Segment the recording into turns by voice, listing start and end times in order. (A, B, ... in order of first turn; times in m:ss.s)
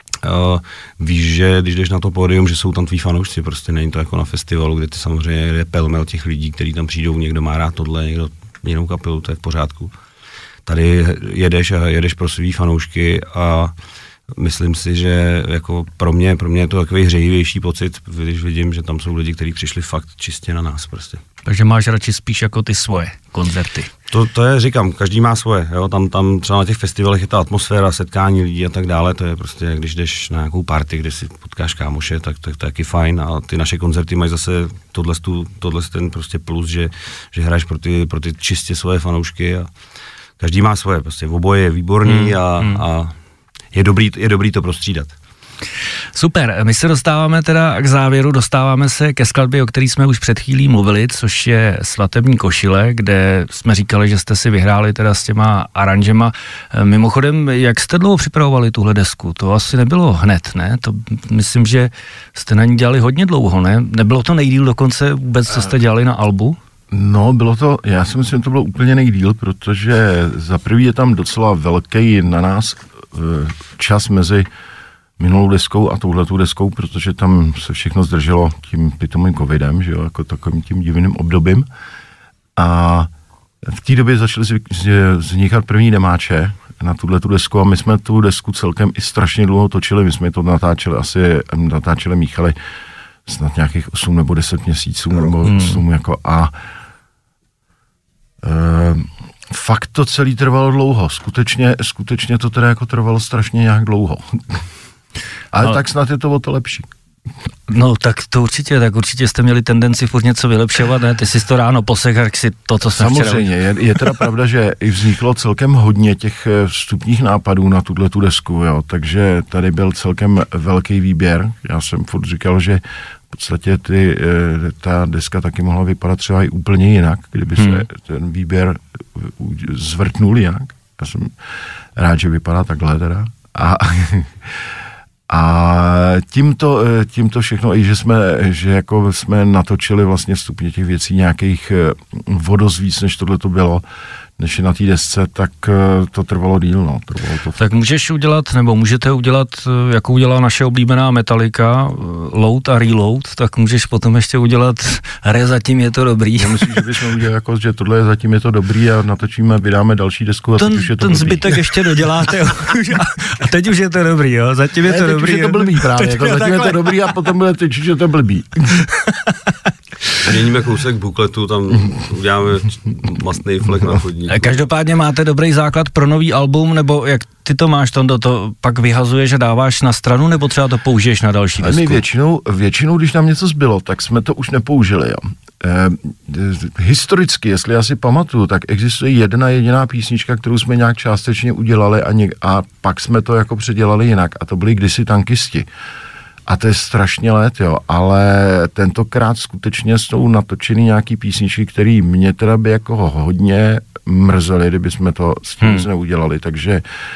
0:00.2-0:09.9 A
0:10.7-0:13.7 A
0:14.3-0:21.2 A
0:21.5-0:23.9 B
0:24.1-0:39.7 A
0:40.4-0:43.1 A
0:42.1-0:42.8 B
0:43.7-0:45.2 A
0:46.1-1:06.6 B
1:06.9-1:14.5 C
1:15.2-1:21.7 C
1:22.6-1:23.1 C
1:23.6-1:32.6 C
1:33.3-1:36.5 C
1:35.5-1:35.8 B
1:38.4-1:44.6 C
1:45.5-1:46.9 C
1:47.7-1:53.5 B
1:52.9-2:11.4 C
2:07.6-2:07.9 B
2:12.0-2:14.7 C
2:15.3-2:23.8 C
2:24.4-2:27.6 C
2:27.6-2:36.7 B
2:36.4-2:42.0 C
2:40.6-2:47.0 B
2:44.8-2:48.8 C
2:48.7-2:49.6 B
2:50.2-2:54.7 A
2:54.3-3:02.0 B
3:01.6-3:15.7 C
3:16.5-3:26.8 C
3:25.6-3:25.9 B